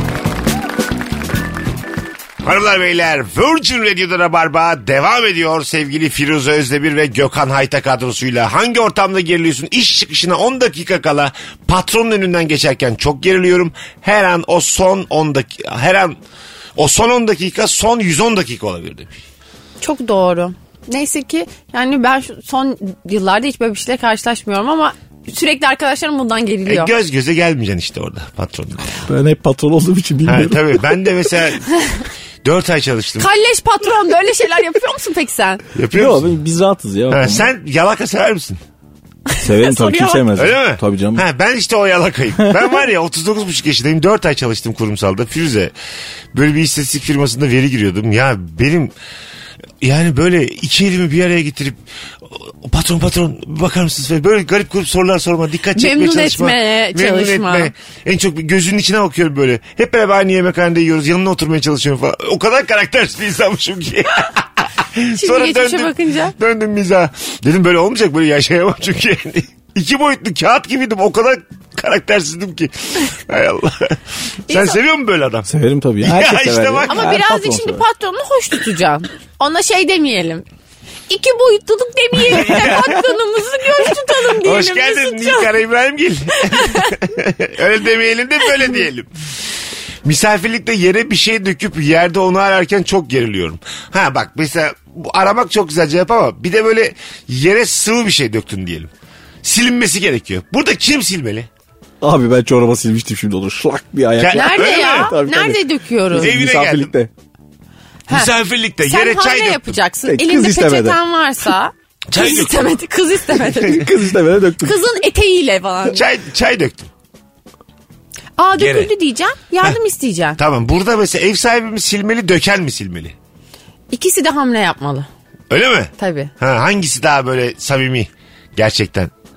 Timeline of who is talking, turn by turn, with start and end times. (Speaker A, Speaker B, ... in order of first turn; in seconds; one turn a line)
Speaker A: 2.4-16.1
Speaker A: 16.8-19.2
Speaker B: 19.8-26.9
Speaker A: 26.6-29.1
Speaker C: 29.1-30.8
Speaker A: 30.2-31.7
Speaker A: 32.4-33.3
Speaker B: 33.2-35.6
Speaker A: 35.7-36.3
Speaker C: 35.9-37.5
Speaker A: 37.1-38.6
Speaker B: 39.3-40.2
Speaker C: 39.4-41.2
Speaker A: 40.3-45.7
Speaker A: 46.3-48.9
Speaker A: 49.8-75.5
Speaker B: 55.7-57.7
Speaker B: 65.1-66.3
Speaker B: 74.5-74.8
Speaker C: 75.5-77.8
Speaker A: 76.0-77.1
Speaker B: 76.9-80.4
Speaker B: 81.1-85.5
Speaker A: 82.3-83.0
Speaker A: 84.4-89.1
Speaker B: 86.3-86.9
Speaker A: 90.0-98.9
Speaker A: 99.4-101.5
Speaker C: 102.0-107.1
Speaker A: 104.2-105.1
Speaker B: 104.3-106.3
Speaker A: 106.1-106.9
Speaker A: 108.1-109.8
Speaker B: 108.8-113.9
Speaker C: 110.0-111.0
Speaker A: 112.1-112.7
Speaker C: 113.6-114.8
Speaker B: 114.6-116.0
Speaker A: 115.9-116.9
Speaker B: 118.4-120.4
Speaker A: 118.5-118.9
Speaker A: 120.4-123.1
Speaker B: 123.9-125.1
Speaker A: 125.5-129.1
Speaker B: 126.0-126.3